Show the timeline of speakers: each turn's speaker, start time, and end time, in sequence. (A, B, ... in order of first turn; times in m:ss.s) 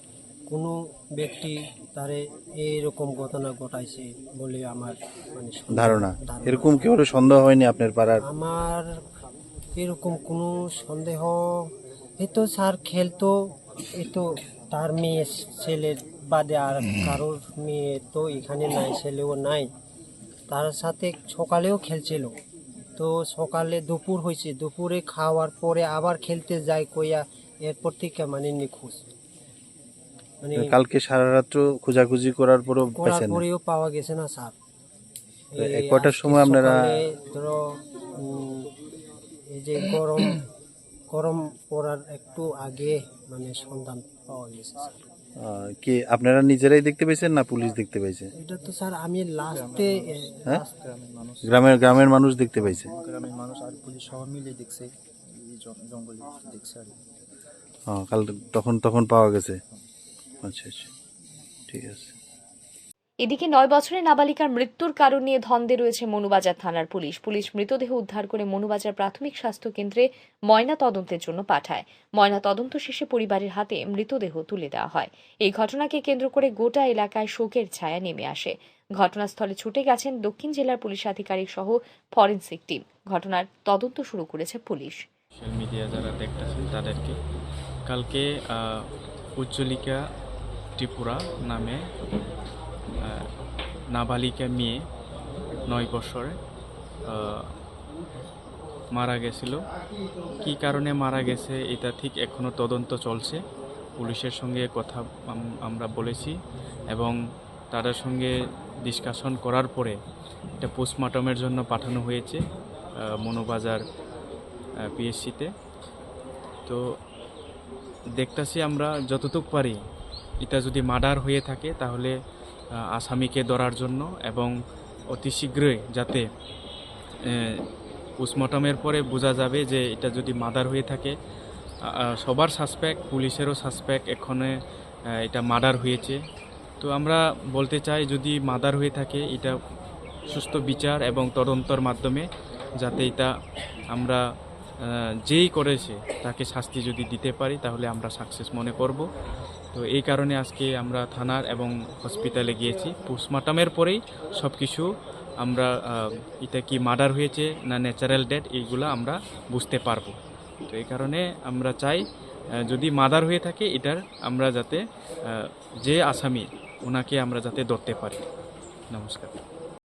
0:00.5-0:06.8 A
0:05.7-0:08.2 B
0:08.2-0:08.9 A
0:09.8-0:13.4 A
0:13.9-0:19.7 A
0:20.5-0:22.3 A
0:23.0-0:29.0 A
0:30.4-0:30.8 A
0:30.6-0:33.4 B
0:33.0-0:34.5 A
0:35.5-0:38.7 A
0:35.6-0:36.8 B
0:39.5-0:40.5 A
0:41.1-0:45.0 A
0:45.4-0:48.3 B
0:48.4-0:50.7 A
0:49.5-0:52.1 C
0:51.4-0:52.9 B
0:52.6-0:57.0 C
0:57.9-0:59.6 B
1:00.4-1:00.9 B
1:01.7-1:02.1 B
1:03.2-1:25.0 D
1:25.4-1:27.2 E
1:27.9-1:30.0 E
1:30.8-1:31.8 E
1:33.0-1:33.3 E
1:33.9-1:34.8 E
1:35.7-1:36.4 E
1:37.1-1:37.5 E
1:38.9-1:39.6 E
1:40.4-1:43.4 E
1:44.0-1:46.4 E
1:47.7-1:48.3 E
1:48.9-1:50.0 E
1:50.6-1:52.4 E
1:53.2-1:53.8 E
1:54.9-1:55.5 E
1:58.2-1:59.8 E
2:00.4-2:02.1 E
2:03.0-2:04.5 E
2:05.1-2:06.2 E
2:07.3-2:07.6 E
2:08.2-2:11.1 E
2:11.9-2:14.5 E
2:15.2-2:16.2 E
2:16.8-2:19.6 E
2:20.3-2:22.3 E
2:22.8-2:23.3 E
2:23.9-2:24.2 E
2:24.8-2:29.0 E
2:29.7-2:34.9 E
2:35.4-2:40.1 E
2:40.7-2:42.0 E
2:42.6-2:48.2 E
2:48.9-2:49.4 E